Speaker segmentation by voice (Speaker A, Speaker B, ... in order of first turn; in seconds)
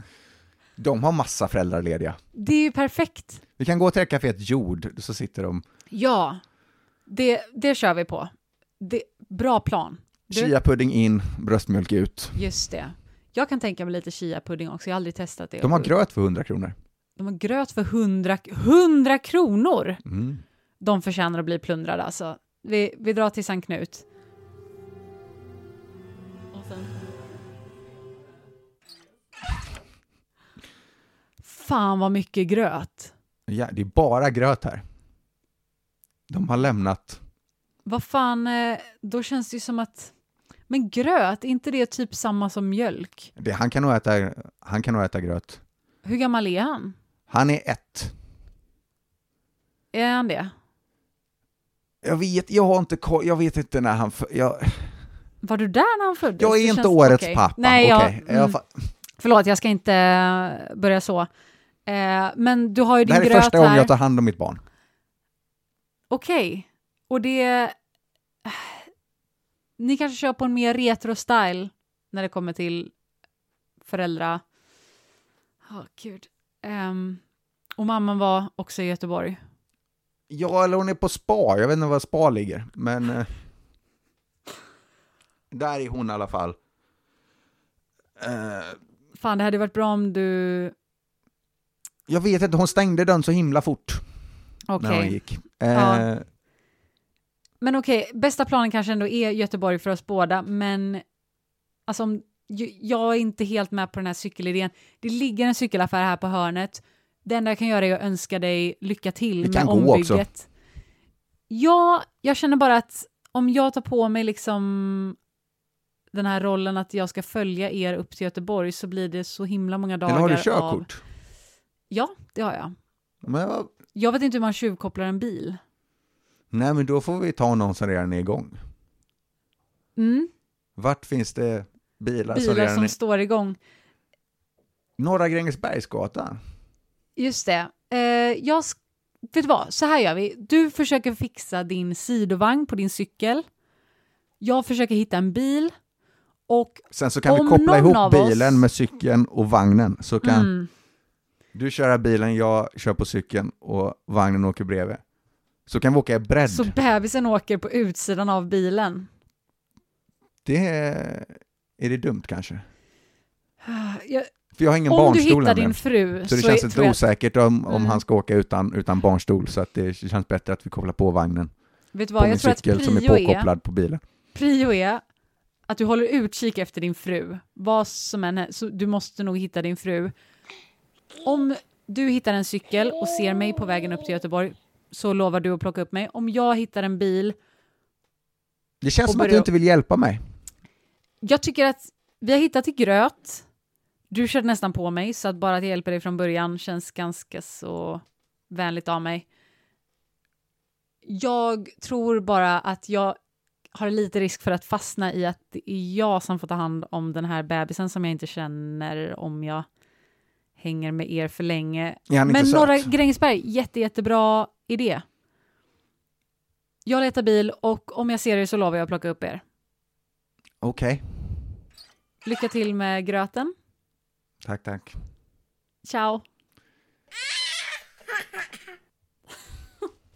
Speaker A: 0.8-2.2, 3.6-5.6, 10.3-12.4, 15.6-16.7, 20.0-20.4, 33.5-34.8, 36.3-37.2, 43.4-45.6, 47.3-48.1, 52.0-55.1, 56.4-58.9, 63.0-64.6, 80.3-83.3, 85.5-86.5, 88.2-88.8, 92.1-94.0, 94.8-96.2, 109.4-110.3, 120.1-121.0, 123.2-123.7, 126.5-128.6, 130.8-132.9, 135.0-136.4, 146.9-150.5, 151.5-155.0, 155.7-156.7, 160.4-162.6, 164.6-171.5, 172.2-174.0, 188.8-190.2, 212.1-212.9, 220.6-221.4, 224.4-225.0
Speaker B: 2.3-3.4, 5.9-6.4, 7.1-10.5, 12.3-15.9, 17.2-20.0, 20.8-24.0, 26.6-26.9, 31.4-33.1, 37.8-40.1, 40.7-43.3, 46.0-46.9, 49.9-50.5, 55.4-58.6, 59.2-61.3, 61.9-63.9, 66.1-67.7, 68.4-68.9, 69.8-72.9, 73.8-74.4, 75.6-77.2, 77.8-79.4, 89.1-90.7, 94.7-96.1, 97.6-101.0, 101.9-110.5, 111.5-115.2, 116.1-120.9, 121.9-122.7, 123.9-125.6, 129.9-130.3, 132.3-133.6, 137.2-138.8, 139.3-143.4, 144.4-145.7, 146.5-148.7, 150.2-150.7, 156.4-159.1, 163.6-164.3, 164.9-167.0, 167.7-168.0, 171.9-173.5, 174.3-175.0, 175.7-180.1, 181.2-187.3, 189.0-189.5, 191.2-193.4, 194.1-199.3, 201.0-203.2, 203.7-209.7, 210.6-215.0, 216.8-219.4, 222.2-223.5, 225.8-226.2